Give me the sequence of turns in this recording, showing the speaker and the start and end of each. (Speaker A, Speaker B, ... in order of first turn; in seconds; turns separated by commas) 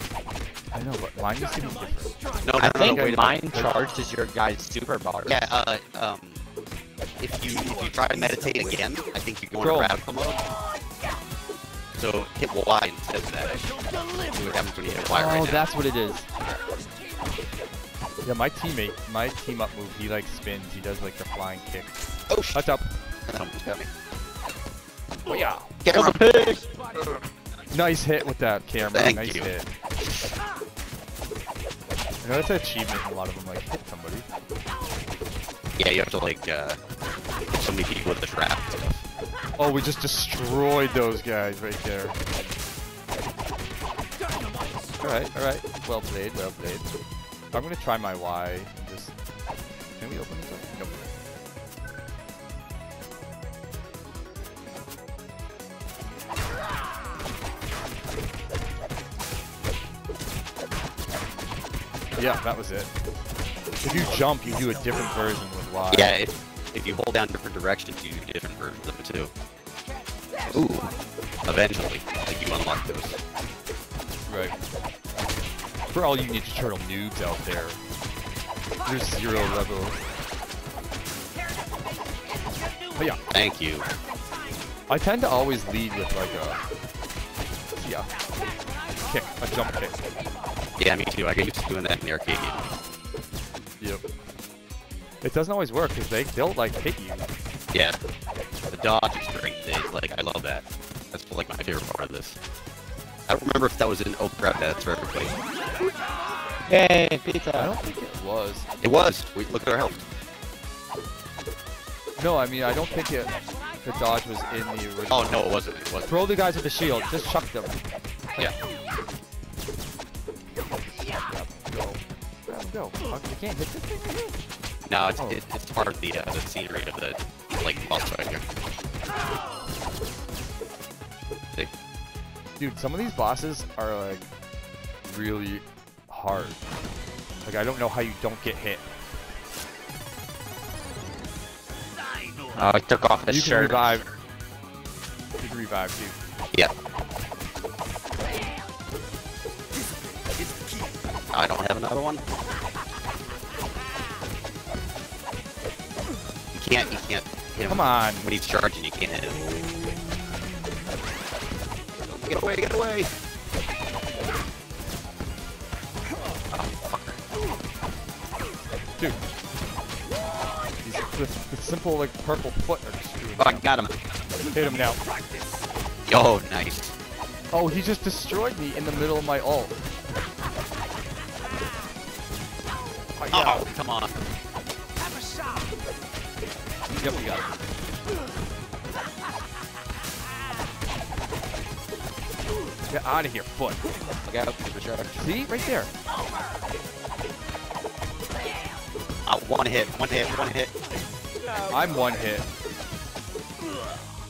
Speaker A: 0.7-3.8, Speaker B: 2.4-3.5, Speaker C: 2.6-5.5, Speaker B: 5.2-6.4, Speaker B: 7.2-10.4, Speaker A: 9.6-9.9, Speaker B: 12.0-13.7, Speaker B: 14.2-15.7, Speaker A: 15.1-16.3, Speaker A: 18.2-22.0, Speaker B: 22.3-22.7, Speaker A: 22.5-22.9, Speaker B: 23.3-23.9, Speaker A: 25.2-25.8, Speaker B: 25.8-26.5, Speaker C: 25.9-26.7, Speaker A: 27.7-29.7, Speaker B: 28.9-29.5, Speaker A: 32.2-34.2, Speaker B: 35.8-36.8, Speaker B: 37.5-39.0, Speaker A: 39.6-42.4, Speaker A: 45.0-46.9, Speaker A: 47.5-49.1, Speaker A: 50.0-51.0, Speaker A: 62.1-62.9, Speaker A: 63.8-66.2, Speaker B: 65.9-69.3, Speaker B: 70.5-70.9, Speaker B: 71.4-73.2, Speaker A: 74.3-74.5, Speaker A: 75.9-77.8, Speaker A: 78.8-80.0, Speaker A: 83.0-83.2, Speaker B: 83.3-83.9, Speaker A: 84.9-86.6, Speaker A: 87.8-88.1, Speaker A: 89.0-90.1, Speaker B: 90.8-92.7, Speaker A: 95.2-97.3, Speaker B: 97.7-98.0, Speaker B: 98.7-102.4, Speaker B: 103.3-105.4, Speaker C: 106.7-107.7, Speaker A: 107.5-108.7, Speaker B: 108.8-110.0, Speaker A: 112.2-115.5, Speaker B: 115.1-116.1, Speaker A: 116.0-117.8, Speaker A: 121.2-124.3, Speaker B: 124.8-128.4, Speaker A: 132.6-134.2, Speaker A: 135.0-136.6, Speaker A: 137.4-138.9, Speaker C: 142.5-144.0, Speaker A: 143.3-144.1, Speaker A: 145.4-146.2, Speaker B: 151.3-152.2, Speaker B: 156.5-159.5, Speaker A: 157.7-158.3, Speaker B: 162.1-163.1, Speaker B: 166.5-167.2, Speaker A: 170.8-173.7, Speaker C: 173.4-173.9, Speaker A: 174.5-175.0, Speaker B: 176.1-176.9, Speaker A: 177.5-179.8, Speaker A: 183.1-183.7, Speaker B: 183.3-184.2, Speaker A: 187.0-187.5, Speaker A: 192.9-193.8, Speaker B: 194.3-195.2, Speaker A: 195.2-195.9, Speaker B: 199.2-200.7, Speaker A: 201.6-202.4